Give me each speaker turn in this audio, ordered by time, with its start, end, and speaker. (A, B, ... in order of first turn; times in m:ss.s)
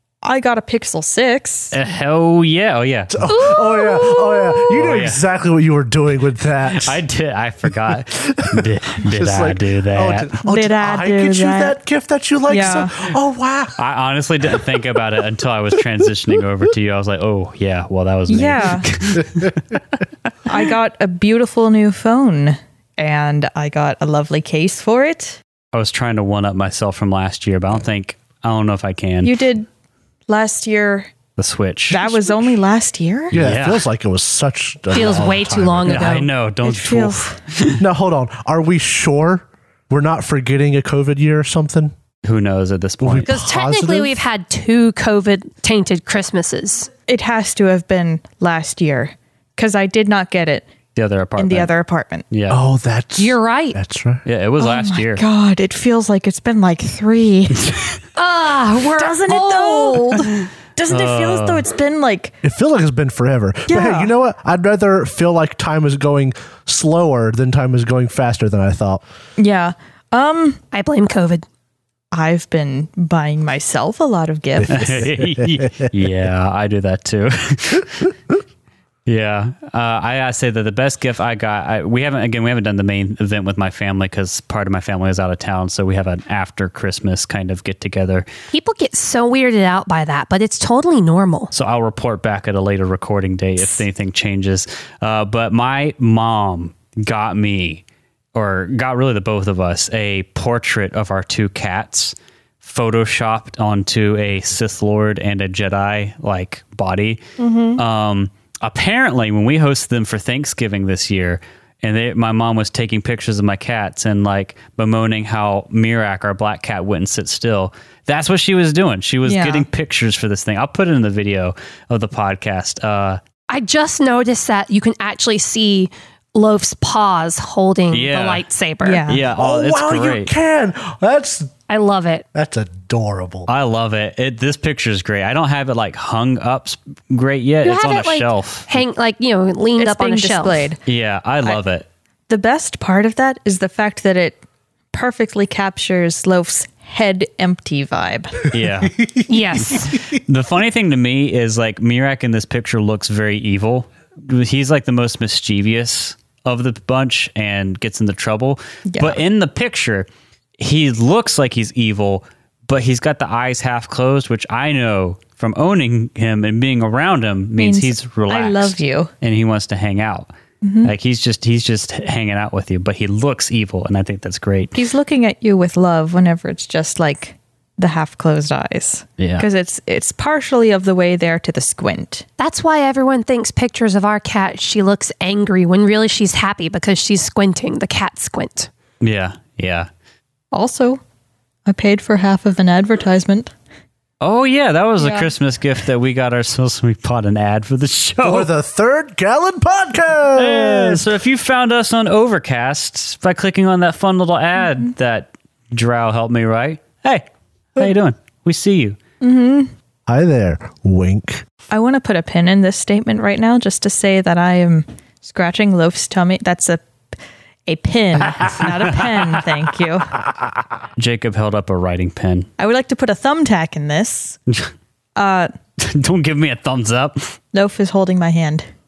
0:00.2-0:01.7 A
0:01.7-0:03.2 B
0:03.1-0:07.0 C
0:03.3-0:04.6 D
0:04.7-0:05.2 B
0:06.8-0:10.3 B
0:07.9-0:13.8 C
0:10.5-0:11.8 A
0:12.5-0:12.9 A
0:13.8-0:19.7 B
0:18.3-0:18.9 A
0:20.5-0:25.4 A
0:25.7-0:29.4 B
0:29.2-0:29.7 A
0:30.3-0:31.1 A
0:31.4-0:32.4 B
0:31.9-0:33.5 A
0:33.3-0:36.1 C
0:33.3-0:33.9 B
0:34.9-0:36.3 D
0:35.8-0:37.8 B
0:36.6-0:37.4 A
0:37.8-0:41.9 C
0:42.2-0:43.3 B
0:43.0-0:44.2 C
0:43.3-0:46.9 D
0:47.1-0:50.7 A
0:51.0-0:51.7 B
0:51.4-0:52.3 A
0:52.3-0:52.6 B
0:52.5-0:54.2 C
0:53.2-0:53.8 D
0:54.2-0:55.2 B
0:54.6-0:57.8 A
0:58.2-1:00.3 D
0:58.8-1:02.4 A
1:00.9-1:01.6 B
1:02.4-1:09.0 C
1:03.7-1:04.1 A
1:09.4-1:10.6 A
1:10.7-1:11.4 D
1:12.1-1:15.1 A
1:14.6-1:15.9 C
1:14.7-1:18.1 B
1:19.1-1:28.3 B
1:28.5-1:31.5 D
1:31.5-1:37.8 B
1:38.4-1:47.2 B
1:47.4-1:47.8 A
1:47.8-2:03.2 B
1:59.2-1:59.7 A
2:03.5-2:09.2 D
2:07.9-2:08.4 B
2:08.8-2:09.2 A
2:09.1-2:10.3 B
2:09.4-2:11.5 C
2:11.7-2:12.2 D
2:12.3-2:13.5 C
2:13.5-2:18.8 B
2:17.6-2:20.7 D
2:19.8-2:20.8 A
2:20.9-2:21.9 B
2:22.3-2:24.4 A
2:24.9-2:28.5 A
2:28.5-2:29.0 B
2:29.3-2:30.0 D
2:29.6-2:40.1 B
2:38.9-2:39.2 A
2:40.6-2:50.3 B
2:47.6-2:49.1 A
2:50.6-2:50.9 A
2:50.8-2:54.8 B
2:54.7-3:02.2 A
2:59.2-2:59.5 B
3:02.4-3:08.7 D
3:09.0-3:09.9 B
3:10.5-3:11.0 A
3:11.7-3:13.5 A
3:14.2-3:18.5 B
3:15.0-3:15.3 A
3:18.2-3:21.1 C
3:20.3-3:29.0 B
3:29.2-3:29.7 A
3:30.1-3:31.4 C
3:31.7-3:36.8 A
3:37.7-3:40.1 A
3:38.3-3:39.4 B
3:41.0-3:42.5 B
3:42.6-3:44.4 A
3:45.2-3:45.5 A
3:45.8-3:47.3 B
3:47.5-3:48.7 A